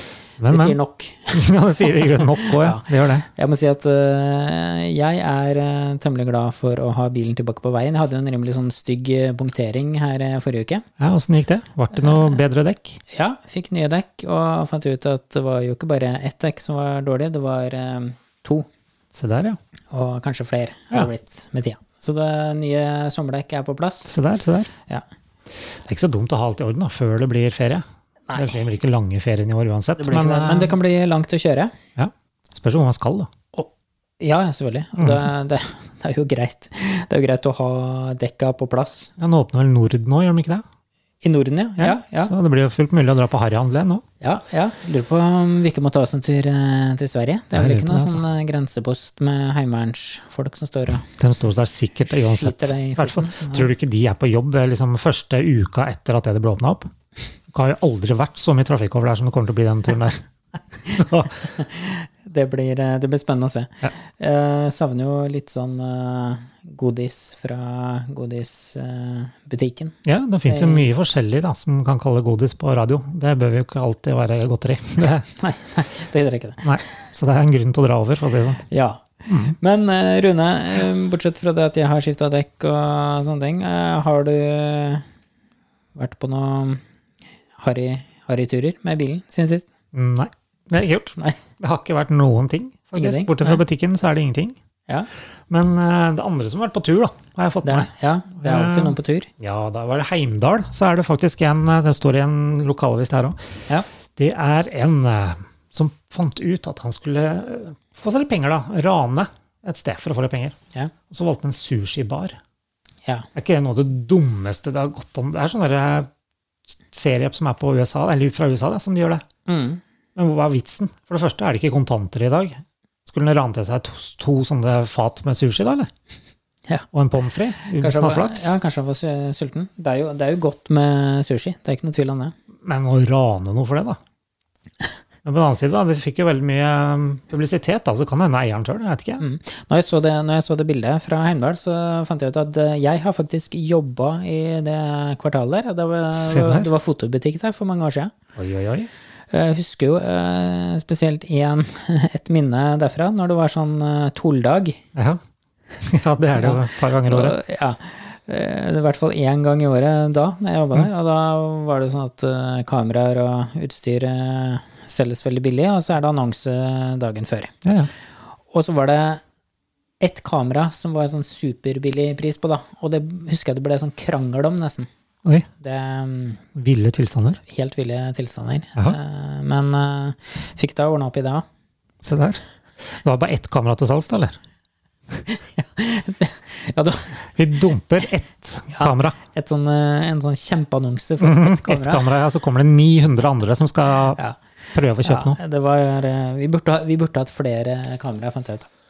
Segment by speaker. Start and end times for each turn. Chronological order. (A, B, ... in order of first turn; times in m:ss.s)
0:00.4-0:00.8 A
0:00.5-0:01.5 B
0:01.3-0:03.3 A
0:02.0-0:10.8 B
0:11.0-0:13.0 A
0:12.0-0:12.3 B
0:13.1-0:18.7 B
0:19.1-0:19.6 A
0:19.9-0:24.1 B
0:24.1-0:24.7 A
0:25.8-0:30.8 A
0:28.3-0:28.6 B
0:30.0-0:31.8 B
0:32.0-0:33.3 A
0:34.2-0:39.1 B
0:35.0-0:35.3 A
0:39.2-0:40.6 A
0:41.2-0:42.3 B
0:41.8-0:44.0 A
0:44.2-0:51.1 B
0:47.5-0:48.2 A
0:51.2-0:56.9 A
0:52.1-0:53.7 B
0:57.5-1:00.2 A
1:00.8-1:01.5 A
1:01.6-1:10.9 B
1:10.0-1:15.3 A
1:15.3-1:16.7 B
1:16.6-1:18.6 A
1:18.7-1:25.0 B
1:19.3-1:19.5 A
1:26.0-1:26.8 B
1:27.6-1:29.7 B
1:29.9-1:34.6 A
1:33.0-1:33.6 B
1:35.5-1:37.9 A
1:37.6-1:39.3 B
1:38.4-1:43.4 A
1:44.2-1:50.6 A
1:51.1-1:52.4 A
1:53.3-1:56.1 A
1:56.9-1:59.2 A
1:59.4-1:59.8 B
2:00.1-2:05.9 A
2:06.9-2:08.5 A
2:07.8-2:12.3 B
2:12.6-2:14.0 A
2:15.2-2:19.2 A
2:19.2-2:28.1 B
2:26.1-2:26.7 A
2:28.4-2:28.9 A
2:29.3-2:34.8 B
2:34.9-2:35.2 A
2:35.8-2:37.4 A
2:36.4-2:47.6 B
2:47.6-2:47.9 A
2:48.5-2:49.2 B
2:50.0-2:54.9 B
2:55.6-2:56.4 B
2:56.6-2:57.4 A
2:57.4-3:01.4 B
3:02.0-3:04.4 A
3:05.2-3:07.1 B
3:07.3-3:09.2 A
3:08.7-3:12.1 B
3:11.2-3:14.2 A
3:14.7-3:15.4 A
3:15.0-3:18.7 B